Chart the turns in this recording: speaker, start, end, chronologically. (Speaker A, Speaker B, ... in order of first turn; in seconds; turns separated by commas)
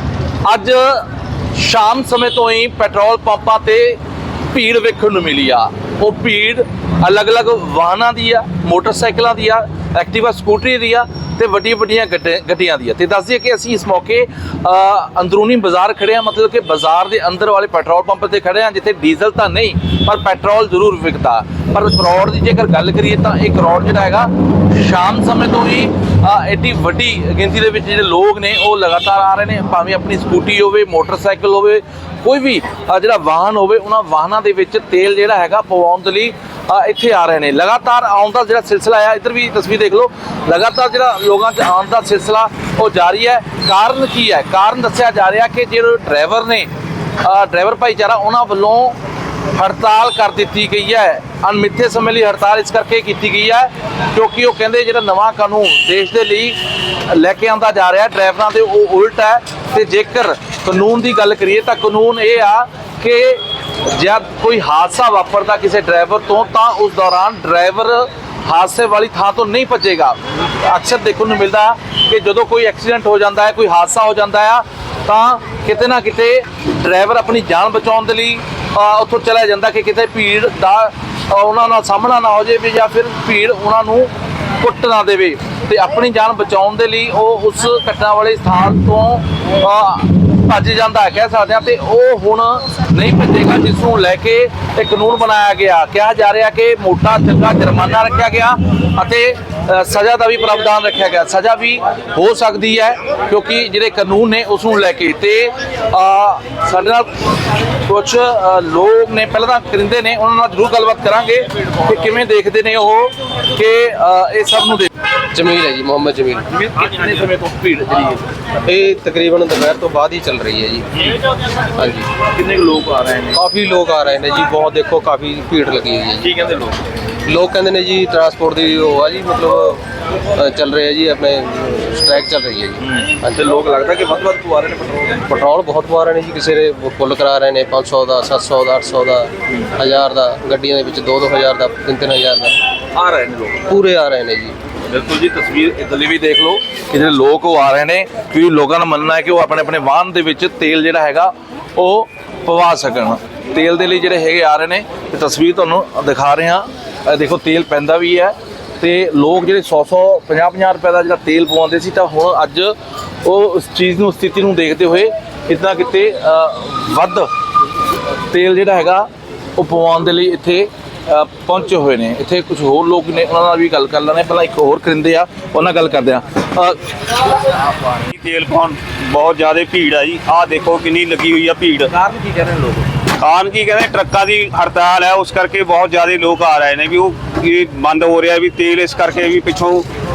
Speaker A: 0.4-4.0, Speaker A: 4.5-46.7, Speaker A: 47.2-49.0, Speaker A: 49.5-107.1, Speaker A: 107.8-114.9, Speaker B: 115.3-116.5, Speaker A: 116.5-118.2, Speaker B: 118.7-120.9, Speaker A: 120.9-121.2, Speaker B: 121.8-122.1, Speaker A: 122.2-123.4, Speaker B: 123.3-126.3, Speaker A: 126.2-126.8, Speaker B: 127.2-129.8, Speaker B: 130.3-133.4, Speaker A: 132.8-135.2, Speaker B: 135.3-142.5, Speaker A: 142.9-143.7, Speaker B: 143.7-144.6, Speaker A: 144.9-167.3, Speaker A: 168.3-176.8, Speaker C: 178.1-181.9, Speaker A: 181.9-182.9, Speaker C: 183.2-189.8